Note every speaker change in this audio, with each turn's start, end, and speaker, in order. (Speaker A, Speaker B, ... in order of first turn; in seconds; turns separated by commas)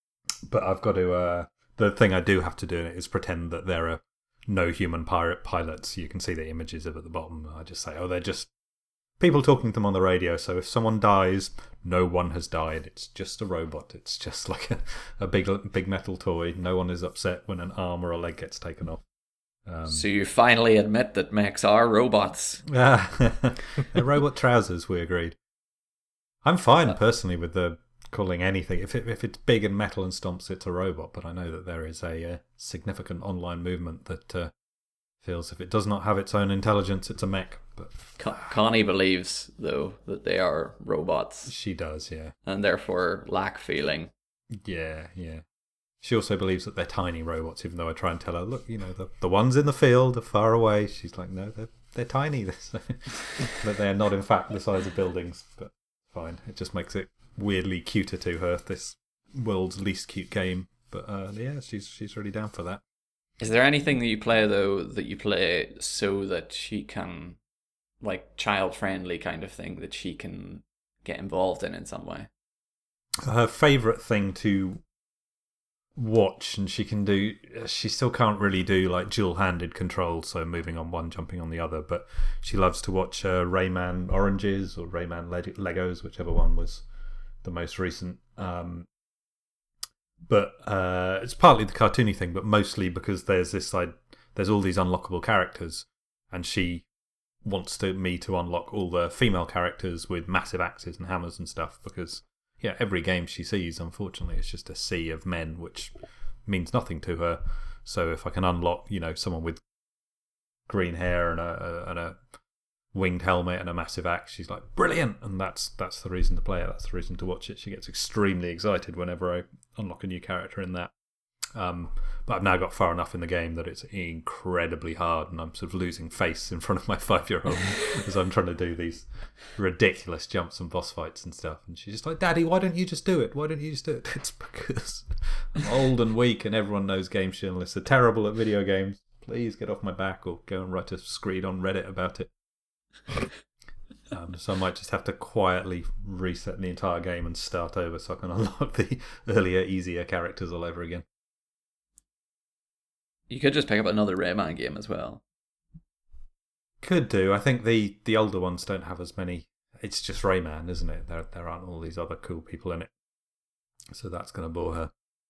Speaker A: 0.5-8.5, Speaker A: 9.2-19.0, Speaker A: 19.7-20.1, Speaker B: 19.9-22.6, Speaker A: 22.7-25.4, Speaker A: 26.4-34.5, Speaker A: 35.2-38.5, Speaker B: 38.2-41.5, Speaker A: 41.5-42.3, Speaker B: 42.5-44.1, Speaker A: 44.6-45.4, Speaker A: 46.0-62.8, Speaker B: 63.4-67.4, Speaker B: 68.0-72.3, Speaker A: 73.2-74.8, Speaker A: 76.0-86.9, Speaker A: 87.4-88.9, Speaker A: 90.3-96.9, Speaker A: 97.4-105.9, Speaker A: 106.5-109.6, Speaker A: 110.7-112.2, Speaker A: 112.9-120.9, Speaker A: 121.5-142.3, Speaker A: 144.1-151.1, Speaker B: 153.3-155.2, Speaker A: 156.8-162.9, Speaker A: 163.9-164.9